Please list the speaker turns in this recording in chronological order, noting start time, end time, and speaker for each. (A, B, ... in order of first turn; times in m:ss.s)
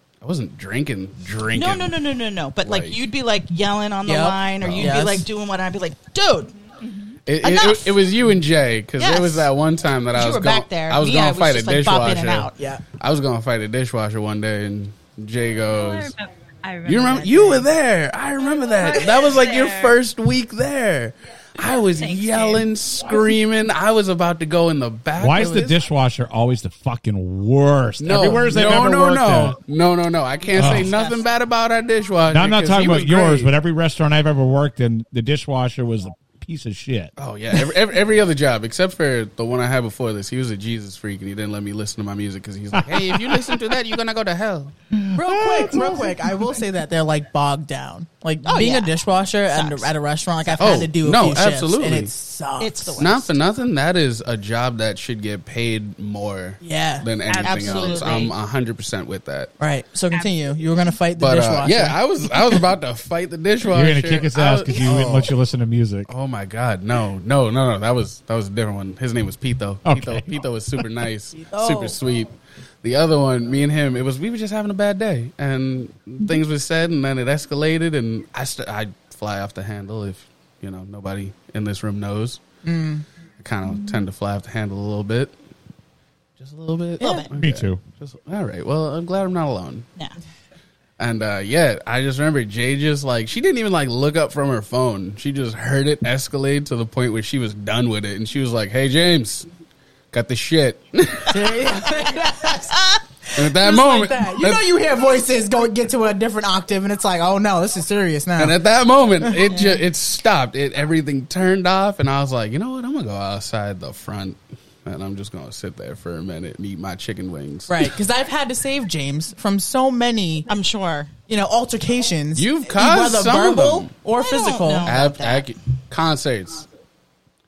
0:00.2-0:02.0 A
0:01.5-0:06.5 B
0:02.6-0:03.0 A
0:04.1-0:05.3 C
0:04.6-0:04.9 A
0:06.8-0:07.2 D
0:07.3-0:16.1 A
0:07.4-0:08.0 B
0:09.0-0:09.5 B
0:10.1-0:12.6 B
0:12.6-0:12.8 C
0:15.7-0:17.7 D
0:16.8-0:25.8 A
0:18.5-0:20.0 D
0:21.6-0:22.7 D
0:25.2-0:29.6 E
0:28.0-0:33.5 A
0:30.6-0:30.9 E
0:30.6-0:31.2 B
0:32.3-0:37.1 E
0:37.2-0:44.8 A
0:42.9-0:43.5 E
0:45.0-0:45.9 E
0:45.2-0:53.1 C
0:48.4-0:48.9 B
0:49.5-0:49.9 B
0:50.4-0:50.8 B
0:50.6-0:52.1 A
0:52.6-0:53.3 B
0:53.0-0:59.5 A
0:56.6-0:57.1 C
0:57.3-0:58.3 D
0:57.4-0:58.4 B
0:59.6-1:02.6 C
1:01.2-1:05.4 A
1:03.7-1:06.1 E
1:06.1-1:12.3 A
1:09.9-1:10.3 E
1:11.4-1:12.0 C
1:12.8-1:22.4 A
1:22.6-1:23.0 C
1:23.4-1:25.3 A
1:23.7-1:24.0 D
1:26.4-1:29.9 A
1:27.0-1:27.3 C
1:27.0-1:27.3 B
1:27.4-1:27.8 E
1:31.0-1:39.5 A
1:40.1-1:42.0 A
1:41.2-1:48.6 C
1:42.7-1:43.0 B
1:43.3-1:44.7 A
1:48.4-1:57.9 A
1:49.2-1:49.6 C
1:49.5-1:49.8 B
1:57.7-2:00.5 C
2:00.5-2:01.1 B
2:01.3-2:05.0 C
2:02.4-2:03.9 A
2:04.2-2:05.5 B
2:04.8-2:06.7 A